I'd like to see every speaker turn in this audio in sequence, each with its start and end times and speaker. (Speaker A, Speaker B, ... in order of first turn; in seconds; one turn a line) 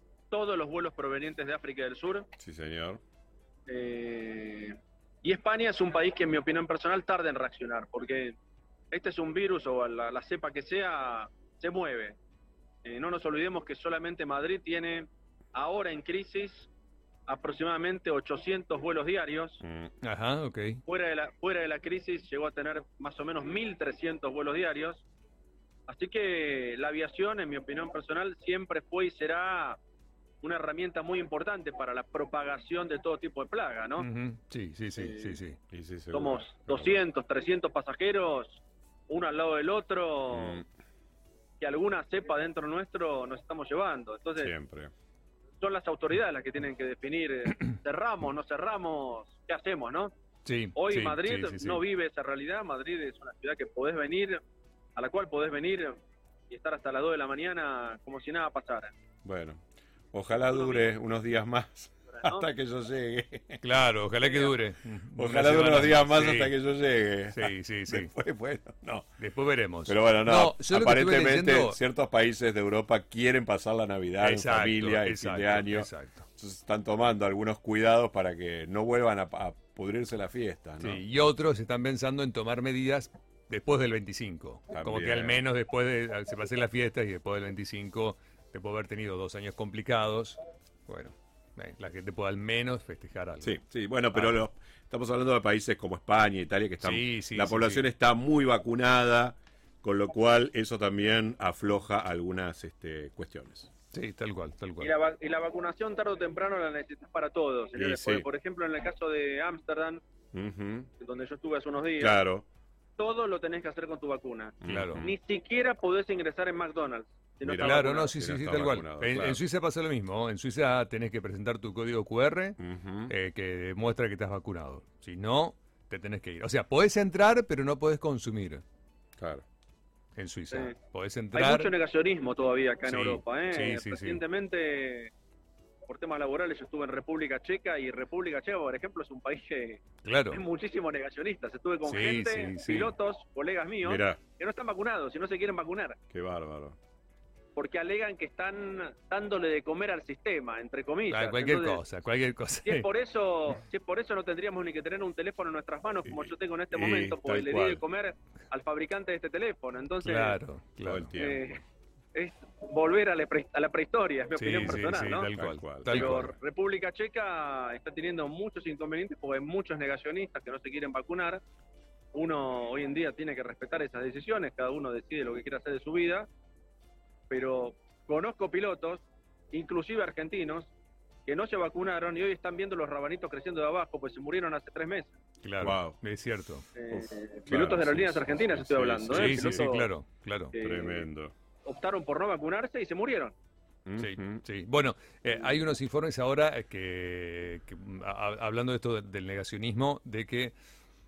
Speaker A: 0.3-2.3
Speaker B: 2.4-3.0
Speaker A: 3.7-8.3
Speaker A: 8.9-12.2
Speaker A: 12.8-16.7
Speaker A: 17.3-19.6
Speaker B: 19.6-19.9
Speaker C: 20.0-20.8
Speaker A: 20.9-25.0
Speaker A: 25.9-29.8
Speaker A: 30.4-34.1
Speaker C: 34.0-35.6
Speaker A: 34.9-35.4
Speaker B: 35.7-37.0
Speaker A: 36.1-40.6
Speaker B: 40.3-40.6
Speaker A: 41.6-44.5
Speaker B: 44.4-44.9
Speaker A: 45.6-50.1
Speaker C: 50.4-51.8
Speaker A: 50.8-54.4
Speaker A: 55.0-58.9
Speaker B: 59.2-63.6
Speaker A: 60.5-60.9
Speaker A: 62.1-62.5
Speaker C: 63.6-66.5
Speaker A: 64.2-64.5
Speaker B: 65.1-69.1
Speaker C: 67.3-68.1
Speaker C: 69.2-71.8
Speaker B: 69.8-81.0
Speaker C: 74.2-76.2
Speaker C: 80.8-93.6
Speaker B: 84.7-85.4
Speaker B: 93.4-103.7
Speaker C: 96.8-97.8
Speaker C: 103.9-104.9
Speaker A: 104.8-110.0
Speaker B: 107.8-108.2
Speaker B: 110.3-110.9
Speaker A: 111.0-112.2
Speaker B: 112.0-112.4
Speaker A: 113.0-118.1
Speaker B: 114.6-115.1
Speaker C: 114.6-115.0
Speaker B: 117.4-119.4
Speaker C: 117.6-128.6
Speaker B: 122.6-123.1
Speaker B: 129.2-129.4
Speaker C: 130.2-131.7
Speaker A: 131.3-135.1
Speaker C: 132.8-134.2
Speaker A: 135.9-146.0
Speaker C: 140.0-140.4
Speaker C: 141.8-142.9
Speaker B: 143.8-144.2
Speaker B: 146.1-146.8
Speaker A: 147.6-151.8
Speaker C: 151.1-152.9
Speaker A: 152.6-160.4
Speaker B: 156.1-157.8
Speaker C: 160.0-161.1
Speaker B: 160.8-161.6
Speaker A: 161.2-161.6
Speaker A: 162.1-165.3
Speaker C: 164.3-166.3
Speaker B: 165.3-166.3
Speaker A: 165.8-171.4
Speaker A: 172.1-176.3
Speaker A: 177.3-180.7
Speaker A: 181.2-185.1
Speaker C: 185.4-186.7
Speaker B: 185.6-186.0
Speaker A: 186.8-189.9
Speaker B: 186.9-189.6
Speaker C: 189.1-190.5
Speaker A: 190.5-191.1
Speaker B: 190.6-191.3
Speaker A: 191.6-193.3
Speaker B: 193.8-194.4
Speaker C: 194.0-200.5